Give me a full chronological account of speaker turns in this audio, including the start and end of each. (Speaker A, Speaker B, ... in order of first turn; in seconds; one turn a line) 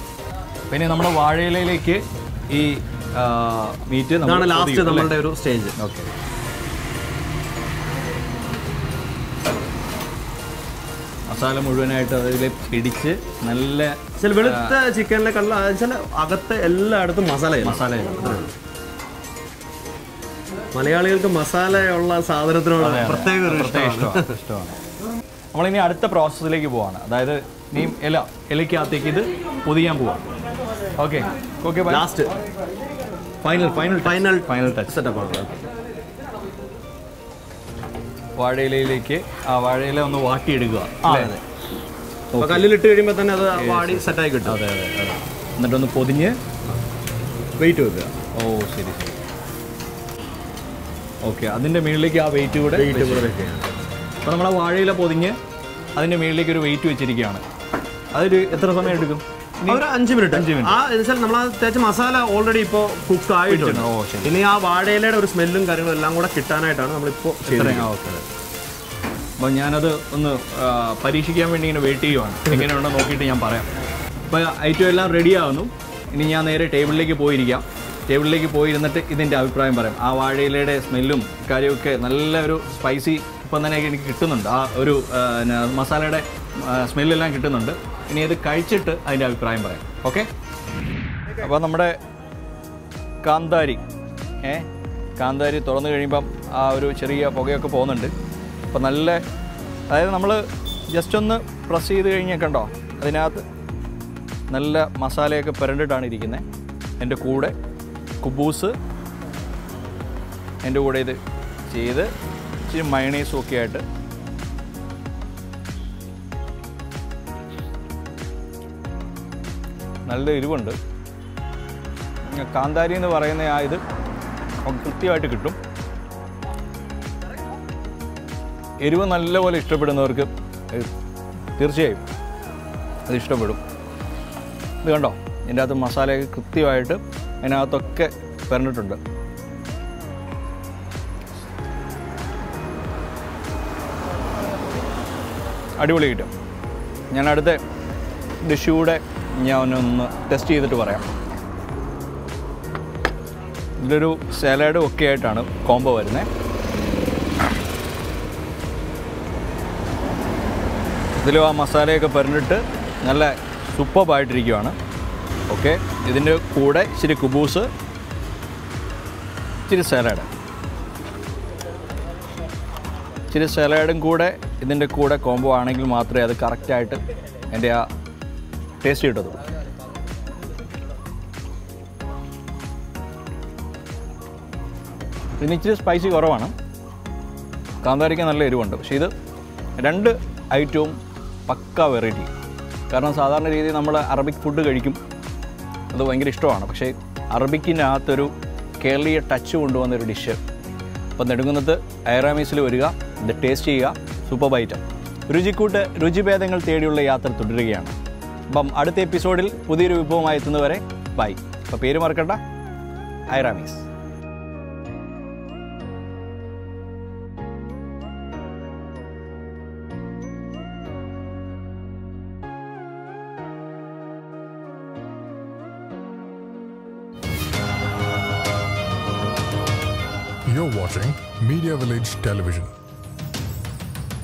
Speaker A: 0.7-5.1
Speaker B: 4.2-5.8
Speaker A: 5.8-6.1
Speaker A: 11.3-14.7
Speaker B: 14.2-18.5
Speaker A: 17.6-18.5
Speaker B: 20.7-24.3
Speaker A: 22.8-24.8
Speaker A: 25.5-30.2
Speaker A: 31.0-32.0
Speaker B: 31.9-32.3
Speaker A: 33.4-35.0
Speaker B: 34.0-35.6
Speaker A: 38.4-41.3
Speaker B: 41.0-41.4
Speaker A: 42.3-42.7
Speaker B: 42.4-44.6
Speaker A: 43.5-46.4
Speaker B: 47.6-48.1
Speaker A: 48.3-49.2
Speaker A: 51.2-53.3
Speaker B: 52.7-53.7
Speaker A: 54.2-55.4
Speaker A: 56.0-57.4
Speaker A: 58.1-60.8
Speaker B: 59.7-67.9
Speaker A: 63.5-64.4
Speaker A: 67.5-68.2
Speaker A: 69.4-73.7
Speaker A: 74.3-90.3
Speaker A: 91.4-92.0
Speaker A: 93.2-93.8
Speaker A: 95.2-98.1
Speaker A: 98.7-99.2
Speaker A: 99.9-103.4
Speaker A: 104.5-106.4
Speaker A: 107.0-107.5
Speaker A: 108.2-108.8
Speaker A: 110.6-112.1
Speaker A: 112.7-113.8
Speaker A: 120.1-120.8
Speaker A: 122.3-123.8
Speaker A: 124.7-125.6
Speaker A: 128.8-130.9
Speaker A: 131.6-132.0
Speaker A: 133.1-133.6
Speaker A: 134.8-139.0
Speaker A: 145.8-146.3
Speaker A: 147.1-147.6
Speaker A: 148.4-151.1
Speaker A: 153.8-156.3
Speaker A: 161.2-164.8
Speaker A: 165.5-167.7
Speaker A: 169.7-170.3
Speaker A: 173.3-177.0
Speaker A: 177.5-177.8
Speaker A: 178.8-179.4
Speaker A: 185.4-186.5
Speaker A: 187.8-189.1
Speaker A: 189.8-190.9
Speaker A: 191.5-192.3
Speaker A: 192.9-195.0
Speaker A: 195.9-200.4
Speaker A: 201.2-207.9
Speaker A: 208.5-212.4
Speaker A: 213.3-213.9
Speaker C: 230.5-232.7